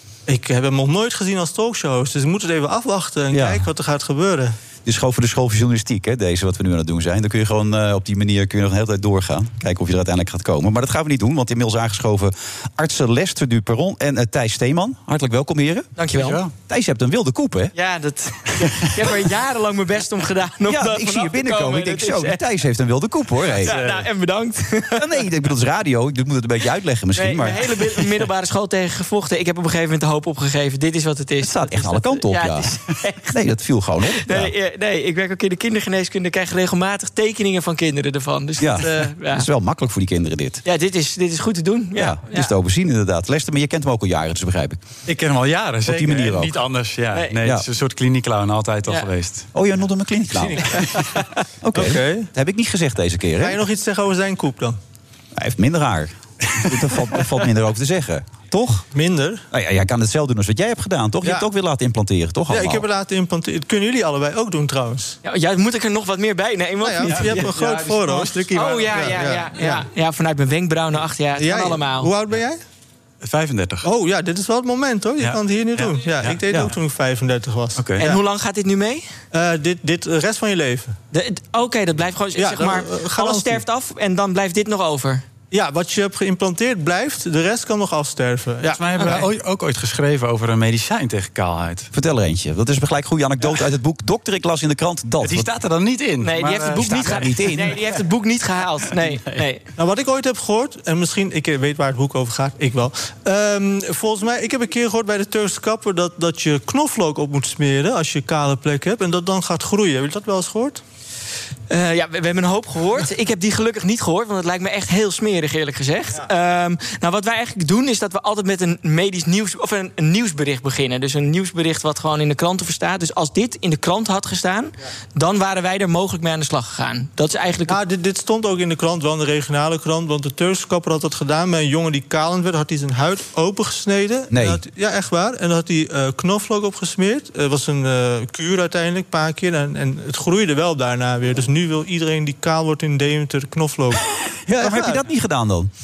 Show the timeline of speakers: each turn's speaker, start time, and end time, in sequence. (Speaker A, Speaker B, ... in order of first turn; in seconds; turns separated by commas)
Speaker A: 0.3-4.5, Speaker B: 3.3-3.6, Speaker B: 4.8-15.9, Speaker C: 16.0-16.4, Speaker D: 16.1-16.5, Speaker B: 16.7-17.7, Speaker C: 17.7-22.4, Speaker B: 20.7-23.7, Speaker C: 23.6-25.2, Speaker D: 23.6-24.1, Speaker B: 25.0-27.9, Speaker C: 27.1-33.4, Speaker B: 31.4-32.7, Speaker B: 33.3-34.5, Speaker C: 34.1-39.5, Speaker B: 38.6-40.6, Speaker C: 40.6-42.5, Speaker B: 42.0-44.8, Speaker D: 45.0-49.5, Speaker B: 45.8-46.5, Speaker C: 47.1-47.4, Speaker B: 49.5-50.9, Speaker A: 50.4-51.0, Speaker B: 51.6-53.6, Speaker A: 51.7-52.3, Speaker A: 53.4-54.8, Speaker B: 55.3-58.8, Speaker A: 58.9-59.4, Speaker B: 59.5-62.8, Speaker A: 62.5-65.2, Speaker C: 65.2-67.4, Speaker A: 66.8-69.8, Speaker D: 67.3-69.0, Speaker C: 68.5-72.1, Speaker A: 71.4-72.6, Speaker D: 73.2-73.9, Speaker A: 73.8-78.2, Speaker D: 75.2-76.4, Speaker D: 77.8-78.1, Speaker C: 78.0-79.1, Speaker A: 79.3-80.9, Speaker C: 81.1-85.2, Speaker A: 82.3-83.6, Speaker A: 85.5-89.2, Speaker D: 88.6-91.9, Speaker B: 91.9-95.5, Speaker D: 95.2-97.4, Speaker C: 96.2-99.6, Speaker B: 96.9-97.7, Speaker D: 98.8-99.4, Speaker A: 99.8-110.8, Speaker C: 111.7-127.8, Speaker A: 127.7-144.0, Speaker B: 134.3-134.6, Speaker B: 144.5-145.7, Speaker A: 144.6-145.0